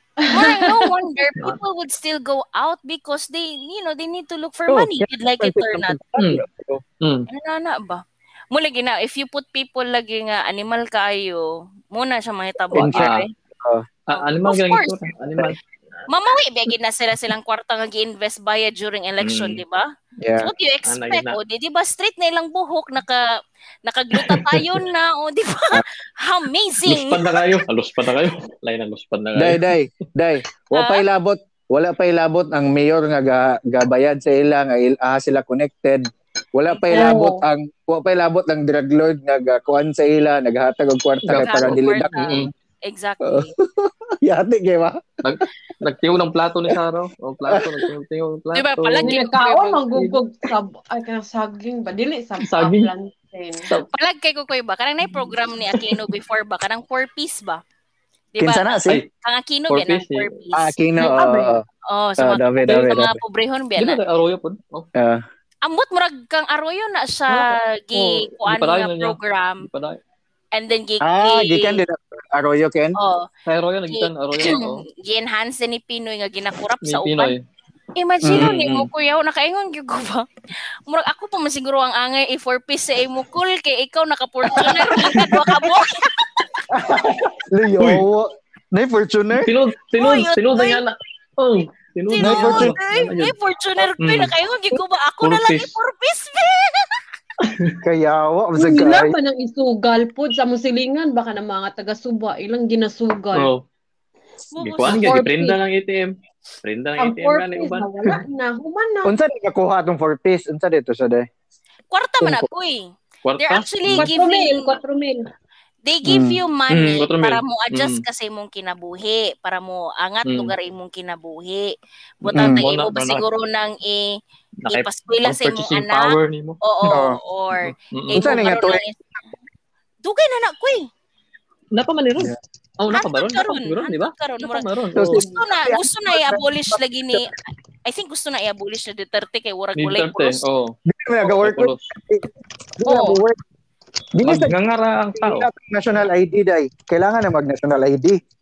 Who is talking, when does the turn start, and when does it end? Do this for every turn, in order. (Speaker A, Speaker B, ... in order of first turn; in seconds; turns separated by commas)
Speaker A: 0.2-0.9, Speaker B: 0.3-6.0, Speaker C: 4.8-6.8, Speaker D: 6.2-6.4, Speaker D: 7.0-7.3, Speaker B: 7.3-13.3, Speaker C: 12.7-13.8, Speaker D: 12.7-13.3, Speaker D: 14.1-16.0, Speaker B: 14.1-15.0, Speaker B: 16.1-19.9, Speaker D: 19.2-19.6, Speaker C: 20.2-20.5, Speaker B: 20.4-27.4, Speaker D: 20.8-21.4, Speaker D: 24.2-24.6, Speaker D: 26.9-29.6, Speaker C: 29.4-42.4, Speaker B: 30.7-31.0, Speaker B: 36.7-37.1, Speaker A: 36.9-37.4, Speaker D: 41.2-42.5, Speaker B: 41.3-43.5, Speaker C: 43.2-45.0, Speaker D: 45.2-49.1, Speaker C: 47.5-47.9, Speaker B: 48.5-49.9, Speaker A: 49.0-53.7, Speaker D: 49.9-50.2, Speaker D: 52.4-52.9, Speaker B: 53.9-57.6, Speaker D: 55.2-56.0, Speaker B: 58.3-61.2, Speaker C: 58.4-59.0, Speaker D: 59.7-60.3, Speaker C: 60.5-61.6, Speaker B: 61.9-64.0, Speaker C: 62.2-63.2, Speaker D: 63.8-64.9, Speaker C: 64.9-65.2, Speaker B: 65.6-69.7, Speaker D: 67.3-70.0, Speaker B: 70.5-71.8, Speaker C: 71.0-73.0, Speaker B: 73.0-73.3, Speaker D: 73.5-74.8, Speaker B: 73.9-77.3, Speaker D: 76.8-77.4, Speaker B: 78.0-80.2, Speaker C: 78.2-78.5, Speaker D: 78.3-78.9, Speaker B: 80.9-86.4, Speaker D: 85.0-85.4, Speaker C: 86.7-89.5, Speaker D: 87.8-88.0, Speaker D: 89.3-93.3, Speaker B: 90.0-90.8, Speaker B: 92.1-96.9, Speaker C: 92.2-92.8, Speaker D: 94.0-94.3, Speaker D: 95.2-95.7, Speaker D: 97.4-97.8, Speaker C: 97.8-99.1, Speaker A: 98.6-103.5, Speaker D: 103.3-103.6, Speaker B: 104.5-105.2, Speaker D: 104.6-106.1, Speaker A: 104.8-105.6, Speaker D: 106.6-108.2, Speaker A: 107.0-109.1, Speaker C: 109.0-111.3, Speaker B: 111.9-114.8, Speaker C: 112.2-112.5, Speaker D: 113.2-114.1, Speaker A: 114.0-115.3, Speaker B: 115.8-129.0, Speaker C: 116.0-116.4, Speaker D: 116.7-118.0, Speaker D: 120.2-120.5, Speaker D: 122.2-123.2, Speaker C: 122.3-122.6, Speaker D: 124.6-126.6, Speaker C: 126.9-127.2, Speaker D: 127.6-128.2, Speaker C: 128.1-128.8, Speaker B: 130.0-130.9, Speaker D: 131.7-135.2, Speaker B: 132.9-137.3, Speaker C: 134.9-137.3, Speaker B: 137.8-140.4, Speaker D: 139.8-141.8, Speaker C: 140.9-142.3, Speaker C: 142.8-143.4, Speaker B: 142.8-143.2, Speaker C: 144.2-144.5, Speaker D: 144.2-145.5, Speaker C: 145.2-148.2